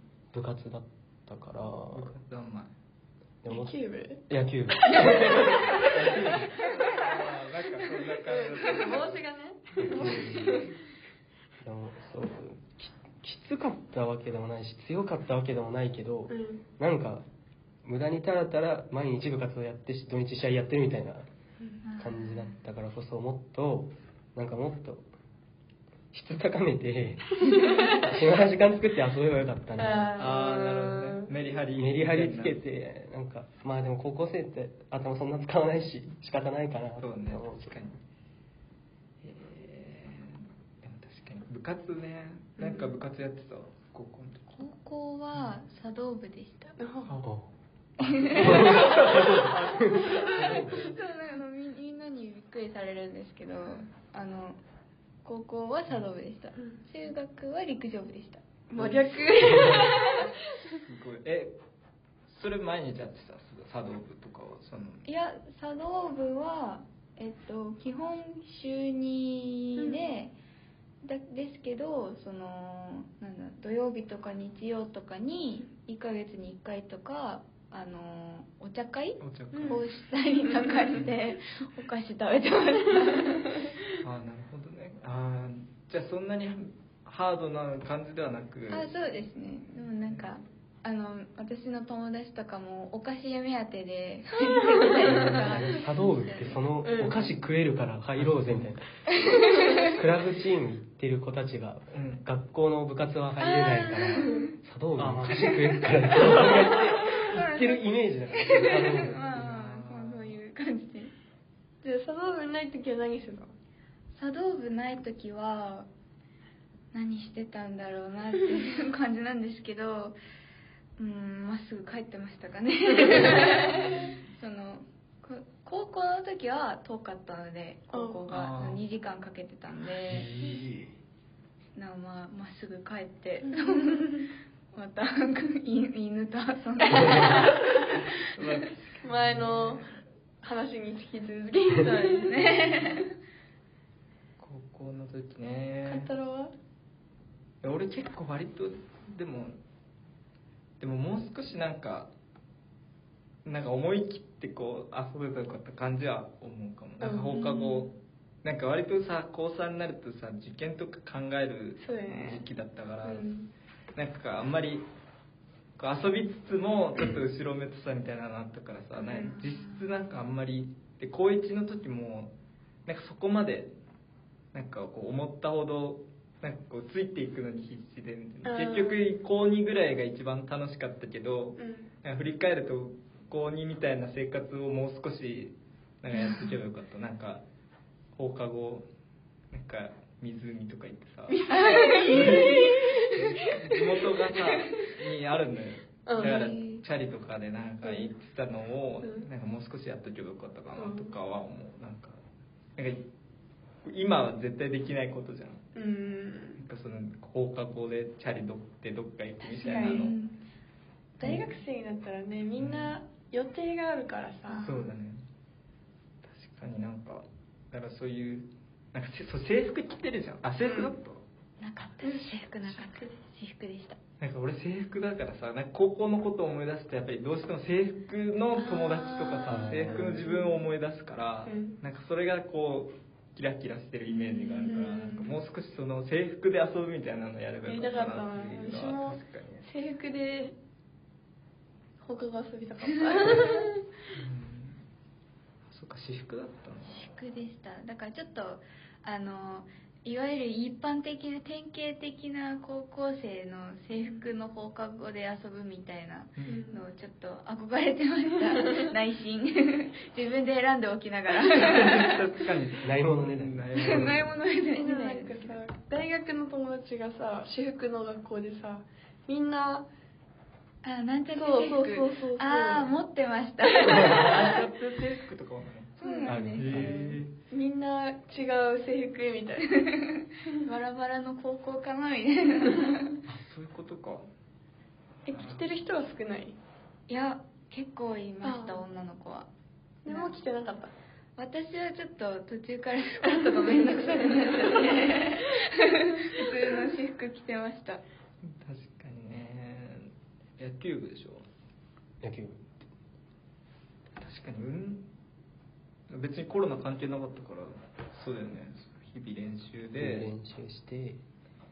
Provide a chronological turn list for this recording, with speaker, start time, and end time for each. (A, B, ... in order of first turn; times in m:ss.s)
0:00.3-0:02.1 A
0:01.9-0:02.7 B
0:03.4-0:03.8 A
0:03.5-0:04.2 C
0:04.3-0:06.5 A
0:04.8-0:06.4 C
0:05.7-0:09.2 B
0:08.1-0:10.7 C
0:09.8-0:10.7 A
0:11.6-0:17.2 A
0:16.3-0:16.6 C
0:17.8-0:21.2 A
0:21.8-0:22.6 D
0:22.0-0:25.1 A
0:26.1-0:30.4 A
0:27.6-0:28.0 C
0:29.8-0:31.3 C
0:30.1-0:32.6 B
0:31.8-0:37.7 A
0:37.0-0:38.0 B
0:39.2-0:44.6 B
0:42.6-0:43.0 C
0:44.6-0:46.8 D
0:45.3-0:45.6 B
0:46.8-0:47.2 C
0:47.0-0:47.3 B
0:48.0-0:49.5 D
0:48.1-0:51.0 B
0:48.4-0:50.9 A
0:50.0-0:54.6 D
0:55.2-0:58.4 D
0:58.7-1:00.0 C
0:58.8-1:00.0 B
0:59.2-1:00.3 D
1:00.8-1:01.5 B
1:02.3-1:05.0 B
1:05.0-1:10.3 D
1:09.8-1:10.0 C
1:11.0-1:23.7 D
1:19.2-1:19.9 B
1:19.5-1:19.8 C
1:24.0-1:28.9 B
1:28.7-1:36.6 D
1:30.0-1:30.3 B
1:34.9-1:38.8 A
1:36.8-1:37.2 C
1:38.2-1:38.7 B
1:39.3-1:39.8 D
1:39.9-1:49.2 A
1:41.9-1:42.2 B
1:43.4-1:44.5 D
1:44.1-1:44.4 C
1:45.0-1:46.8 B
1:47.1-1:51.1 D
1:49.2-1:50.4 B
1:51.8-1:53.5 C
1:54.1-1:55.9 D
1:56.9-2:00.2 D
2:01.0-2:10.3 D
2:07.9-2:08.2 C
2:08.3-2:08.8 B
2:10.1-2:10.8 B
2:11.7-2:18.1 D
2:13.7-2:14.0 C
2:18.3-2:19.9 B
2:19.0-2:19.9 C
2:20.4-2:22.9 C
2:21.8-2:23.1 D
2:24.4-2:26.1 B
2:25.8-2:26.5 C
2:27.6-2:29.6 B
2:30.8-2:32.1 B
2:33.4-2:37.9 B
2:37.0-2:37.4 C
2:37.4-2:37.9 D
2:38.4-2:43.3 B
2:41.8-2:42.4 C
2:43.0-2:43.5 C
2:43.9-2:44.8 B
2:45.8-2:52.3 B
2:49.1-2:49.9 D
2:52.8-2:53.7 B
2:54.5-3:07.4 B
2:58.4-2:59.0 C
3:01.6-3:01.9 C
3:06.2-3:06.5 D
3:08.1-3:08.9 B
3:09.5-3:22.2 B
3:11.3-3:13.8 D
3:14.4-3:14.6 D
3:16.0-3:16.4 C
3:16.2-3:16.8 D
3:17.8-3:18.1 C
3:20.8-3:21.1 C
3:22.8-3:23.0 B
3:23.8-3:25.6 B
3:25.7-3:26.6 C
3:26.6-3:30.2 B
3:29.4-3:30.1 C
3:29.7-3:30.4 D
3:31.2-3:34.9 C
3:31.2-3:31.5 B
3:32.6-3:33.0 B
3:34.5-3:34.8 D
3:34.6-3:35.2 B
3:36.2-3:41.2 B
3:40.6-3:40.9 C
3:41.6-3:44.0 D
3:42.0-3:42.3 C
3:44.2-3:59.7 B
3:48.5-3:50.0 D
3:49.5-3:50.0 A
3:50.0-3:50.4 C
3:51.4-3:51.8 C
3:54.1-3:55.3 D
3:54.6-3:55.1 C
3:57.6-4:00.5 C
4:02.0-4:03.8 C
4:03.0-4:03.7 D
4:04.1-4:04.8 B
4:05.7-4:07.1 B
4:06.8-4:22.2 D
4:16.5-4:16.8 C
4:21.5-4:24.4 B
4:22.8-4:24.2 A
4:23.7-4:25.6 D
4:24.8-4:29.9 C
4:30.8-4:34.6 D
4:31.3-4:32.9 C
4:33.7-4:37.3 B
4:36.0-4:36.9 D
4:36.0-4:39.8 C
4:36.2-4:37.1 A
4:39.8-4:43.2 D
4:43.2-4:44.2 B
4:45.2-4:46.6 C
4:45.3-4:45.7 B
4:47.1-4:49.5 D
4:48.4-4:48.8 C
4:50.0-4:50.9 C
4:50.1-4:50.4 D
4:51.4-4:58.0 D
4:58.4-5:01.4 B
5:02.2-5:02.6 A
5:04.2-5:05.0 B
5:06.1-5:10.3 B
5:10.0-5:11.2 A